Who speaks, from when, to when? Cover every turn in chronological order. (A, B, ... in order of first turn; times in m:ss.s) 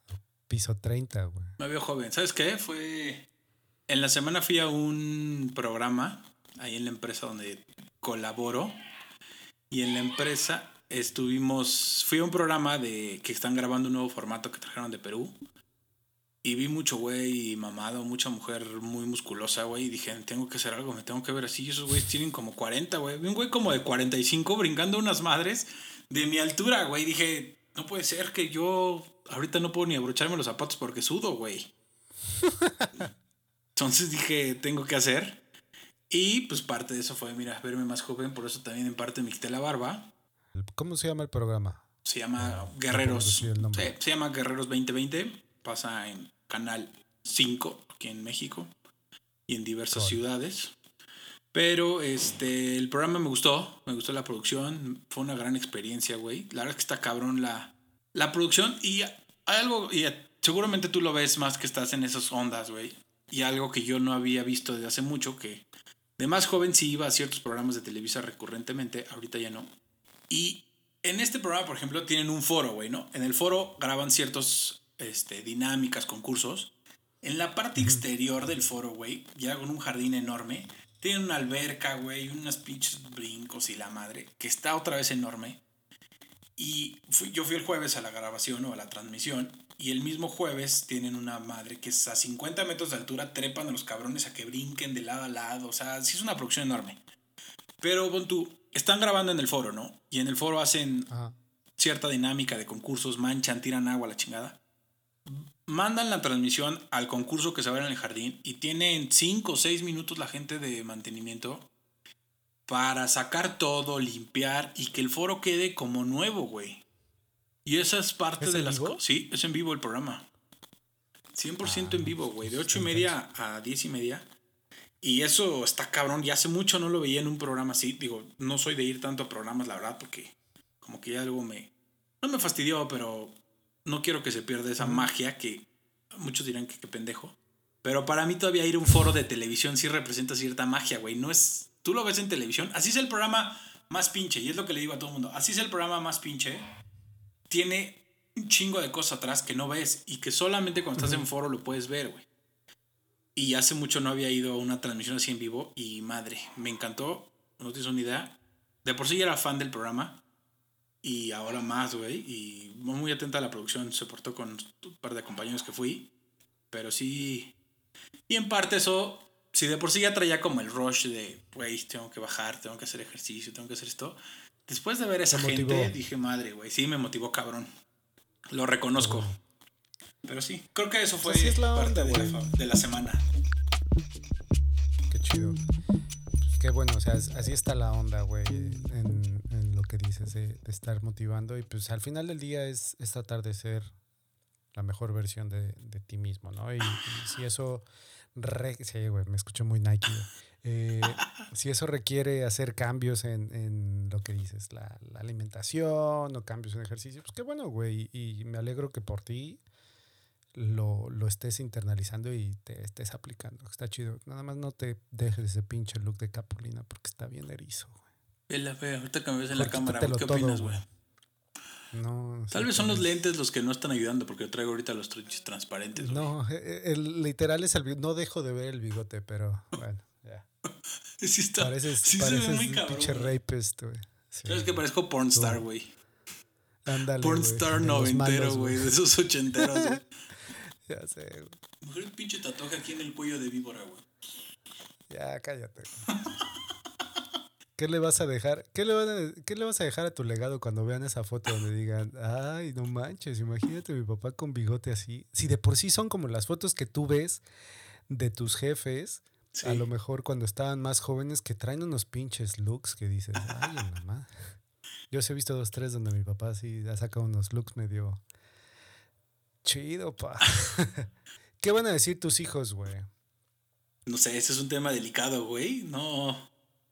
0:00.5-0:01.6 A
0:01.6-0:03.3 B
0:03.9-0:08.7 B
0:09.7-0:15.3 B
0:16.4-0:31.7 B
0:32.4-0:33.1 A
0:33.7-0:35.4 B
0:36.1-0:40.1 B
0:40.5-0:41.8 A
0:42.0-0:48.7 B
0:42.4-0:43.9 A
0:49.5-0:50.7 B
0:49.9-0:50.2 A
0:51.5-1:05.6 B
1:06.2-1:09.7 B
1:10.3-1:16.7 B
1:17.2-1:25.6 B
1:17.8-1:18.0 A
1:26.6-1:37.0 B
1:37.8-1:41.1 B
1:41.1-1:41.4 A
1:41.8-1:44.6 B
1:45.2-1:51.7 B
1:52.7-1:56.8 B
1:57.6-2:00.2 B
1:58.4-1:59.0 A
2:01.3-2:04.3 B
2:01.6-2:03.2 A
2:05.0-2:26.6 B
2:14.8-2:15.1 A
2:27.5-2:32.3 B
2:31.0-2:31.2 A
2:33.3-2:40.2 B
2:41.0-2:46.1 B
2:46.7-2:47.5 B
2:48.3-2:57.7 B
2:55.3-2:55.9 A
2:58.5-2:59.3 B
2:59.0-2:59.4 A
3:00.2-3:03.2 B
3:01.2-3:02.5 A
3:05.1-3:05.6 A
3:06.4-3:13.9 A
3:14.7-3:29.6 A
3:30.5-3:38.0 A
3:38.5-3:40.8 B
3:39.5-3:40.8 A
3:41.9-3:43.2 A
3:42.5-3:46.3 B
3:46.0-3:50.5 A
3:51.2-3:53.3 B
3:51.6-3:54.8 A
3:54.4-3:55.9 B
3:55.3-3:55.6 A
3:56.8-3:58.9 A
3:57.2-4:00.0 B
3:59.6-4:00.0 A
4:00.8-4:01.6 A
4:01.8-4:04.0 B
4:05.1-4:06.1 A
4:07.8-4:17.4 A
4:18.1-4:24.5 A
4:19.5-4:19.9 B
4:25.1-4:28.2 A
4:29.6-4:31.1 A
4:31.6-4:33.1 A
4:34.0-4:36.5 B